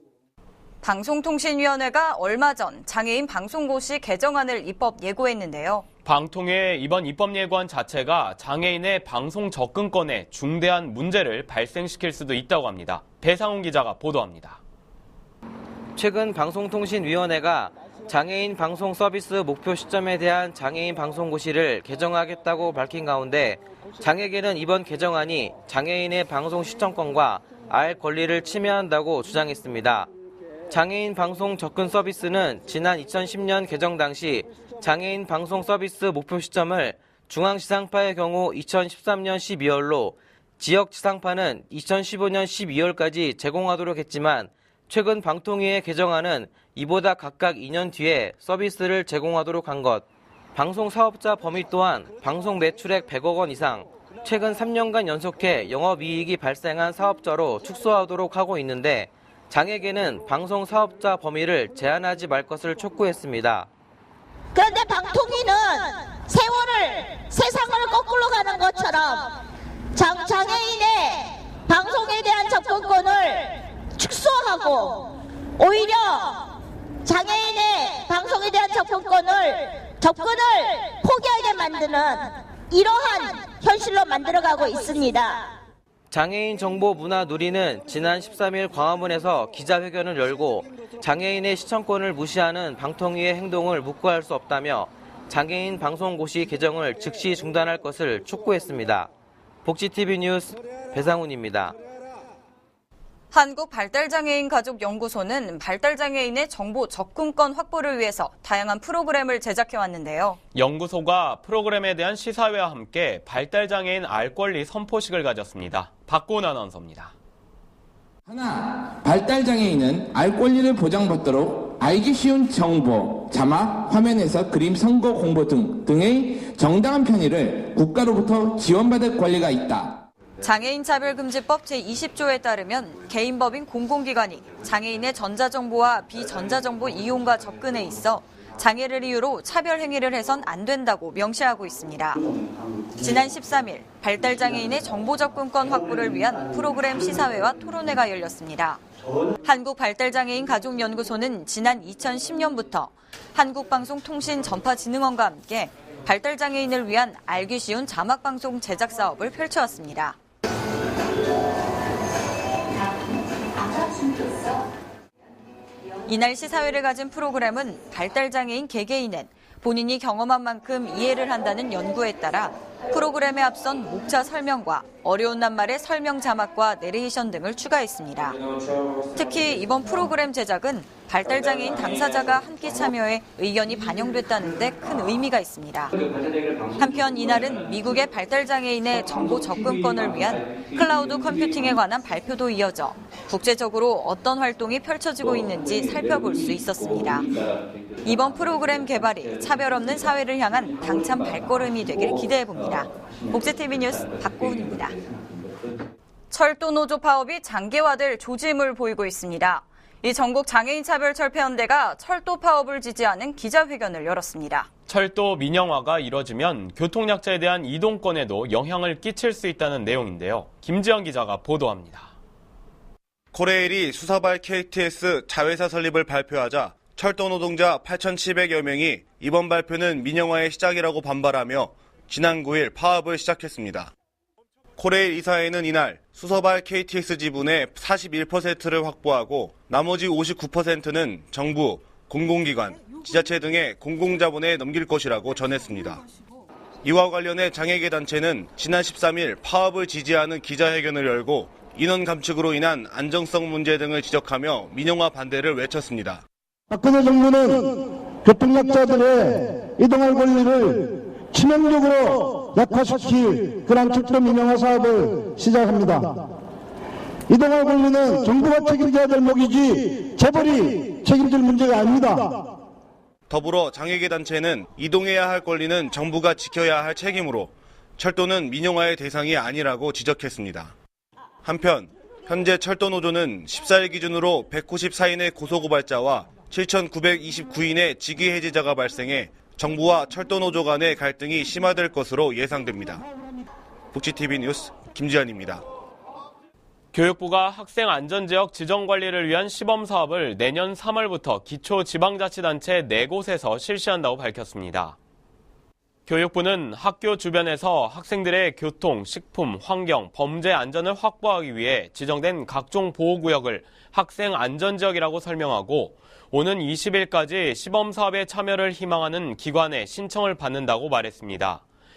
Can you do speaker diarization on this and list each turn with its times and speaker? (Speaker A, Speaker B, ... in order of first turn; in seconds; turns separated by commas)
Speaker A: 0.8-5.8, Speaker B: 6.0-14.6, Speaker C: 15.9-30.1, Speaker C: 30.7-63.7, Speaker D: 64.5-69.3, Speaker D: 69.9-76.4, Speaker D: 77.0-85.4, Speaker C: 86.1-99.1, Speaker C: 99.6-101.7, Speaker A: 103.3-110.4, Speaker B: 110.5-117.1, Speaker E: 118.3-130.0, Speaker A: 130.4-142.2, Speaker A: 142.9-148.8, Speaker A: 149.4-160.2, Speaker A: 166.1-178.4, Speaker A: 179.1-185.9, Speaker A: 186.8-197.3, Speaker A: 198.0-205.0, Speaker A: 206.3-214.7, Speaker B: 214.9-222.1, Speaker F: 223.3-233.9, Speaker F: 234.8-246.0, Speaker F: 246.8-256.2, Speaker G: 256.7-266.1, Speaker G: 267.3-272.3, Speaker F: 273.3-280.7, Speaker F: 281.4-293.0, Speaker F: 293.9-295.6, Speaker B: 296.9-304.9, Speaker B: 306.1-321.6